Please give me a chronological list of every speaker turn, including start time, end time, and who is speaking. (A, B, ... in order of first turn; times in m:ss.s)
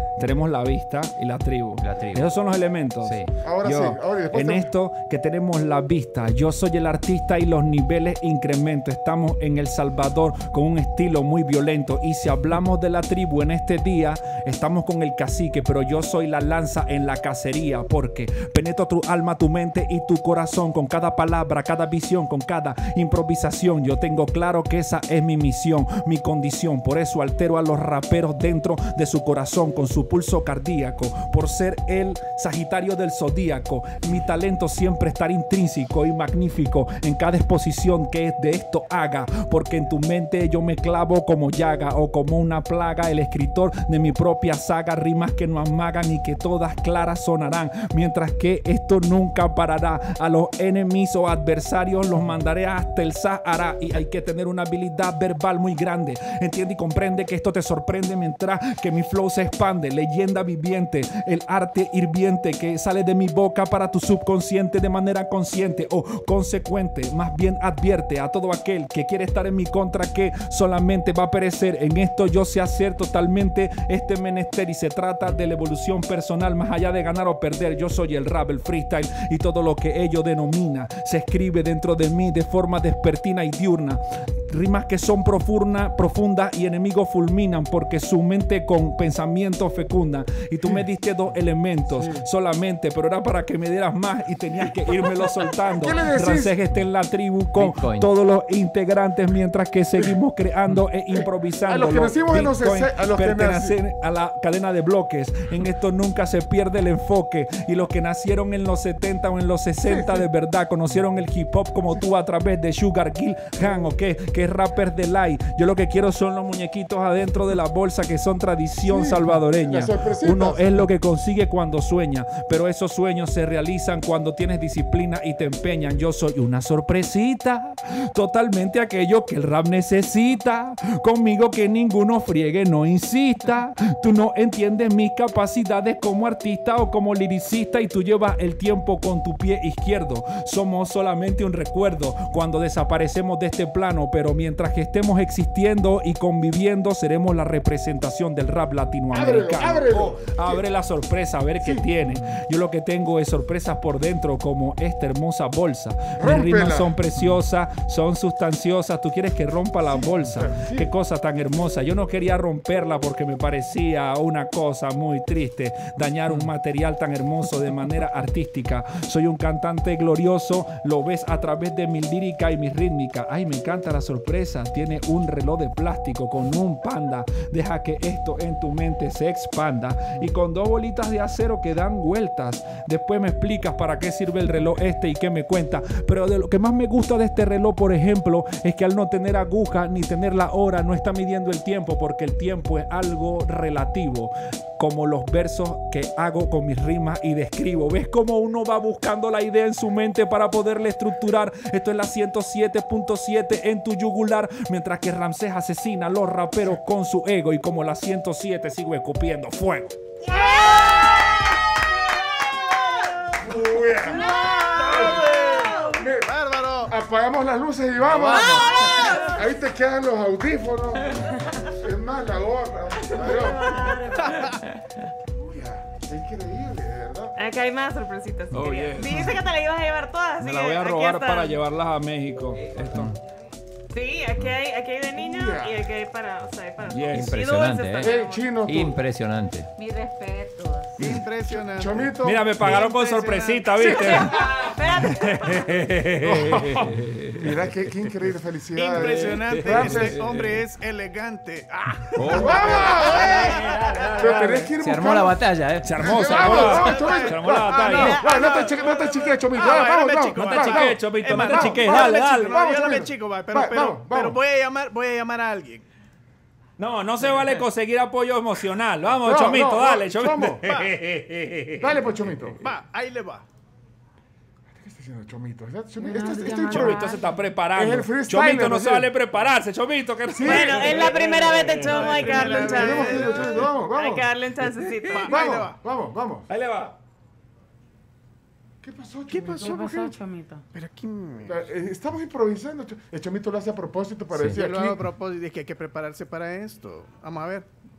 0:00.2-3:30.0 A
0:01.8-0:02.3 B
0:03.0-0:03.3 B
0:03.4-0:04.7 C
1:31.9-1:32.2 C
1:35.6-1:36.6 C
1:37.5-1:38.1 B
1:41.6-1:43.8 C
1:49.8-1:50.2 C
1:58.8-2:00.8 C
2:29.1-2:30.6 C
2:31.6-2:31.8 C
2:36.2-2:37.0 C
2:39.8-2:40.9 C
3:30.3-3:31.3 C
3:30.3-3:31.4 D
3:33.4-3:44.1 C
3:34.1-3:36.0 D
3:34.2-3:36.9 E
3:38.0-3:38.9 B
3:38.3-3:39.4 D
3:43.2-3:44.4 D
3:44.1-3:44.6 E
3:45.3-3:47.4 C
3:47.4-3:51.6 D
3:48.5-3:49.4 A
3:50.4-3:53.2 A
3:52.8-3:53.2 B
3:53.9-3:58.6 D
3:55.2-3:55.9 C
3:56.8-3:57.4 A
3:57.1-3:59.7 B
3:58.0-3:59.0 C
3:59.8-4:01.0 F
4:01.0-4:03.7 E
4:01.0-4:02.9 C
4:02.2-4:07.5 A
4:03.7-4:04.6 C
4:03.9-4:05.8 D
4:06.2-4:10.2 C
4:06.8-4:07.4 B
4:08.7-4:13.7 E
4:08.9-4:10.6 A
4:12.2-4:13.0 B
4:12.3-4:13.6 C
4:12.4-4:14.7 A
4:14.2-4:15.4 C
4:14.8-4:17.0 B
4:15.8-4:18.2 A
4:15.9-4:24.4 C
4:16.1-4:25.8 E
4:20.4-4:22.6 A
4:26.8-4:32.6 A
4:29.2-4:30.7 C
4:30.6-4:30.9 E
4:31.8-4:32.6 C
4:32.6-4:33.4 E
4:34.7-4:37.2 C
4:36.0-4:37.4 F
4:36.7-4:42.2 A
4:37.7-4:39.1 C
4:40.3-4:41.2 C
4:40.4-4:45.5 D
4:41.9-4:43.7 E
4:42.2-4:44.4 C
4:44.6-4:45.3 A
4:45.1-4:45.8 E
4:45.2-4:46.5 C
4:46.5-4:47.0 A
4:48.8-4:50.1 C
4:49.3-4:50.1 E
4:49.6-4:50.6 F
4:50.7-4:51.6 E
4:51.4-4:55.1 C
4:54.5-4:57.7 E